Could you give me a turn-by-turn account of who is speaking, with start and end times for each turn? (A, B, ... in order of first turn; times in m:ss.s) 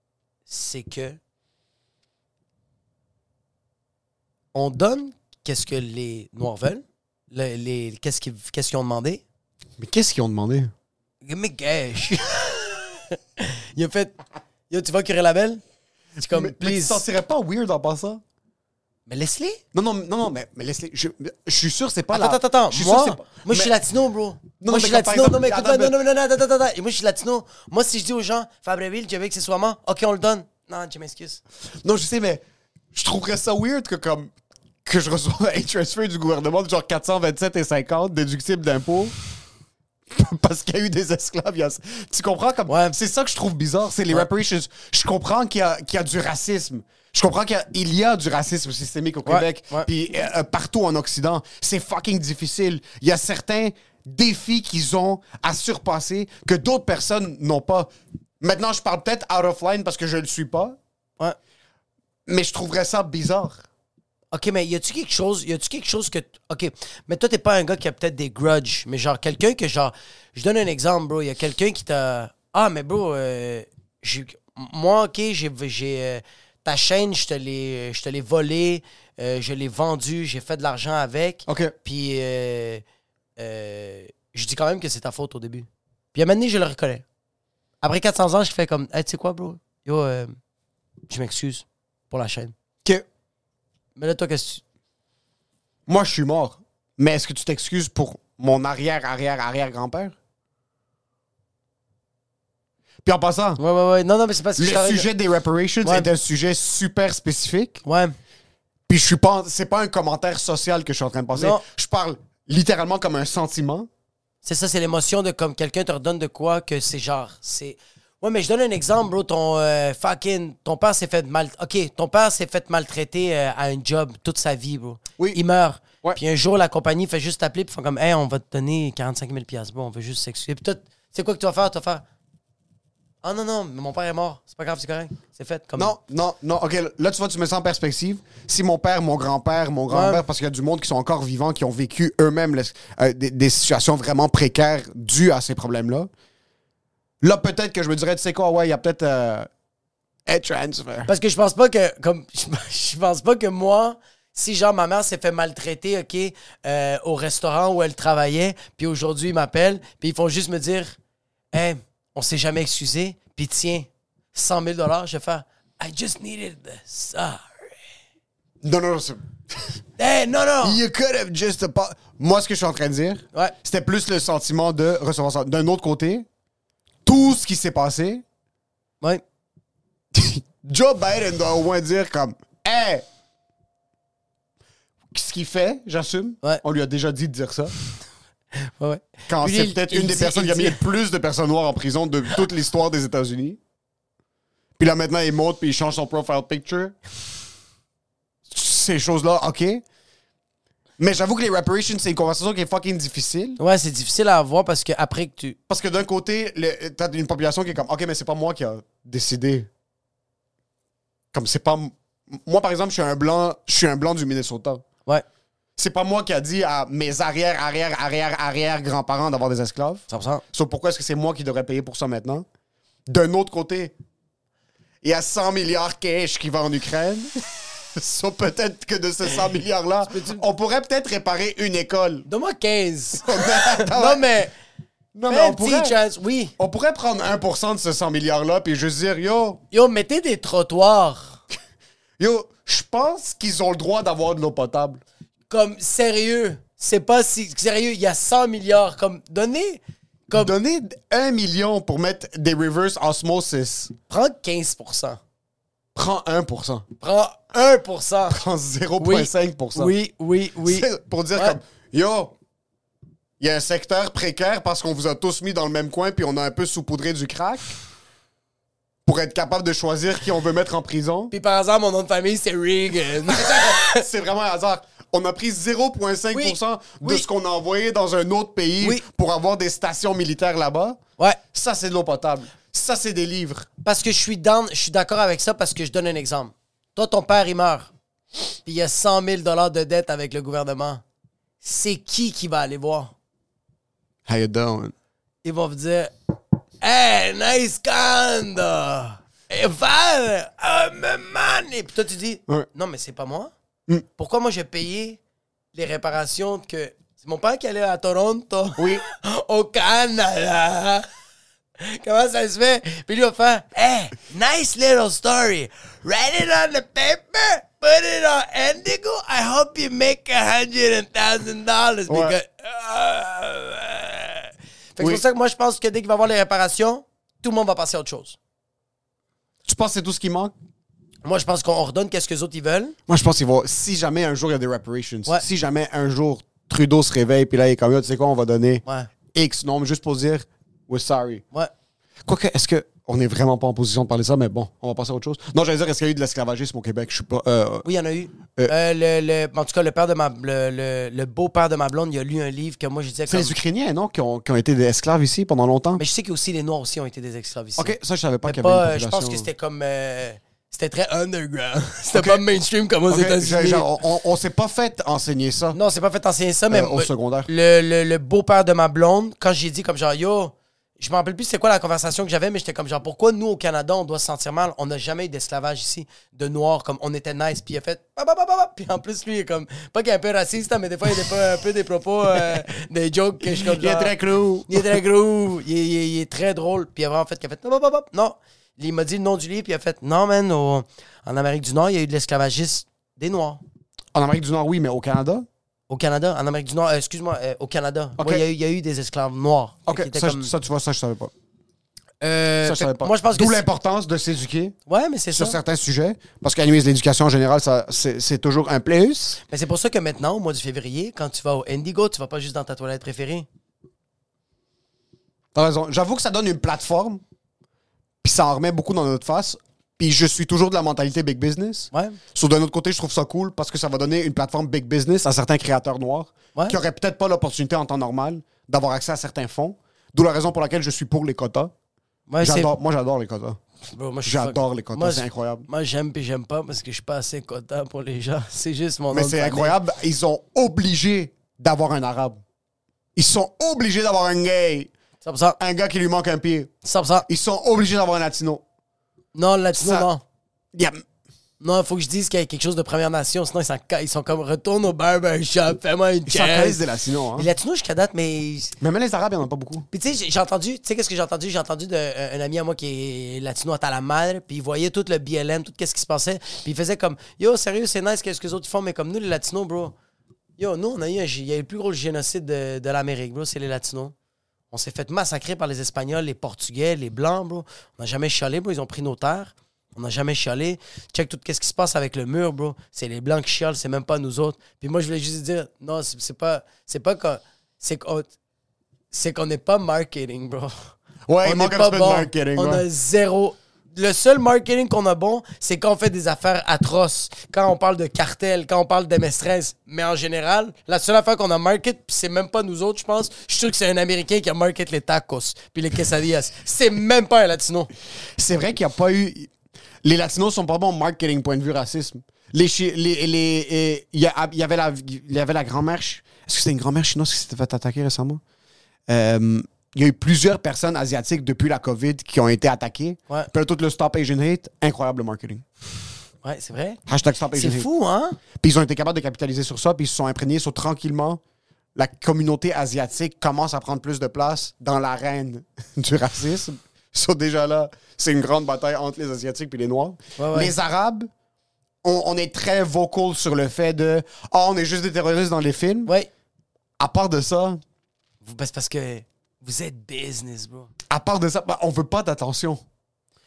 0:00.5-0:01.2 A
0:04.5-0:09.2 A
0:09.8-0:10.7 B
0:11.2-0:14.2 A
0:14.7-0:15.6 A
0:16.2-0:18.2 B
0:16.2-0:17.0 A
0:19.1-0:19.6 A
0:19.7-0:23.7 B
0:22.1-0:31.4 A
0:24.6-0:26.0 B
0:31.8-0:32.4 B
0:32.9-0:34.3 B
0:34.8-0:39.1 B
0:40.1-0:57.9 B
0:42.7-0:43.0 A
0:49.3-0:49.9 A
0:58.4-1:00.8 B
1:02.3-1:03.6 B
1:04.3-1:22.8 A
1:21.5-1:21.8 B
1:23.4-1:27.0 A
1:27.8-1:30.3 A
1:31.1-1:32.5 A
1:34.0-1:34.6 A
1:35.9-1:40.2 B
1:43.0-1:43.6 B
1:43.6-1:45.1 A
1:44.6-1:47.8 B
1:45.8-1:46.1 A
1:47.8-1:48.2 A
1:48.9-1:53.9 B
1:51.4-1:51.6 A
1:54.4-2:12.0 A
2:13.2-2:16.0 A
2:15.8-2:26.1 B
2:19.9-2:20.2 A
2:27.2-2:29.5 B
2:30.3-2:31.1 B
2:31.1-2:41.0 A
2:41.5-2:47.5 A
2:48.6-2:49.2 B
2:50.0-2:50.8 A
2:50.6-2:56.3 B
2:57.0-2:58.2 B
3:00.1-3:03.1 B
3:05.1-3:07.7 B
3:08.6-3:10.8 A
3:09.3-3:13.6 B
3:14.8-3:17.0 B
3:18.5-3:19.8 B
3:21.0-3:23.6 B
3:23.6-3:25.6 A
3:25.7-3:29.7 B
3:31.3-3:34.8 B
3:35.8-3:42.5 B
3:40.1-3:40.4 A
3:43.1-3:43.9 B
3:45.0-3:47.4 B
3:47.9-3:52.3 B
3:50.1-3:50.4 A
3:52.3-3:54.5 A
3:53.2-3:54.3 B
3:55.2-3:56.0 B
3:55.3-3:56.5 A
3:56.6-3:59.6 B
3:59.7-4:01.4 A
4:02.2-4:05.0 B
4:05.5-4:10.5 A
4:10.4-4:13.9 B
4:14.1-4:15.2 A
4:16.0-4:16.8 B
4:17.0-4:18.4 A
4:18.3-4:19.9 B
4:19.0-4:21.6 A
4:20.6-4:22.3 B
4:23.4-4:27.8 B
4:29.0-4:31.3 B
4:31.3-4:34.0 A
4:33.3-4:41.0 B
4:36.3-4:37.2 A
4:41.5-4:43.7 B
4:43.8-4:47.9 A
4:48.6-4:51.0 A
4:51.6-4:53.1 A
4:54.3-4:54.9 B
4:55.4-4:56.1 A
4:56.8-5:03.5 A
5:04.2-5:05.2 A
5:05.7-5:11.1 A
5:08.8-5:09.0 B
5:11.8-5:28.4 A
5:22.1-5:22.4 B
5:29.6-5:30.5 B
5:31.2-5:33.0 A
5:33.1-5:38.8 B
5:38.8-5:39.1 A
5:39.3-5:41.4 B
5:42.2-5:47.9 B
5:47.8-5:53.6 A
5:53.3-5:56.0 B
5:56.0-6:03.9 A
5:57.8-5:59.5 B
6:02.1-6:02.4 B
6:03.1-6:05.8 B
6:05.7-6:24.2 A
6:06.7-6:07.5 B
6:23.5-6:25.0 B
6:24.7-6:33.6 A
6:34.1-6:35.5 B
6:35.9-6:40.5 A
6:38.2-6:38.4 B
6:39.9-6:41.3 B
6:42.2-6:43.6 A
6:42.6-6:44.8 B
6:44.9-6:45.6 A
6:45.3-6:49.4 B
6:49.5-6:53.5 A
6:55.5-6:57.2 B
6:58.2-7:11.7 B
7:01.9-7:02.2 A
7:12.3-7:12.7 A
7:12.4-7:13.6 B
7:13.9-7:19.8 A
7:14.2-7:15.7 B
7:19.1-7:22.4 B
7:23.2-7:24.9 B
7:25.2-7:25.6 A
7:25.6-7:26.7 B
7:26.8-7:27.3 A
7:27.3-7:28.6 B
7:29.4-7:30.2 A
7:29.7-7:30.1 B
7:30.7-7:31.0 B
7:31.6-7:36.8 A
7:36.3-7:37.5 B
7:37.4-7:38.8 A
7:38.8-7:39.9 B
7:39.9-7:50.0 A
7:50.6-7:54.1 A
7:54.7-8:08.3 A
8:09.1-8:10.9 A
8:11.3-8:12.8 B
8:11.4-8:27.9 A
8:28.4-8:29.5 B
8:30.0-8:38.4 B
8:39.1-8:45.6 B
8:46.4-8:47.0 A
8:47.1-8:47.9 B
8:47.5-8:48.4 A
8:48.6-8:51.4 B
8:52.0-9:01.3 B
9:00.4-9:00.7 A
9:02.0-9:06.1 B
9:07.0-9:07.8 B
9:08.4-9:10.9 A
9:11.1-9:12.8 B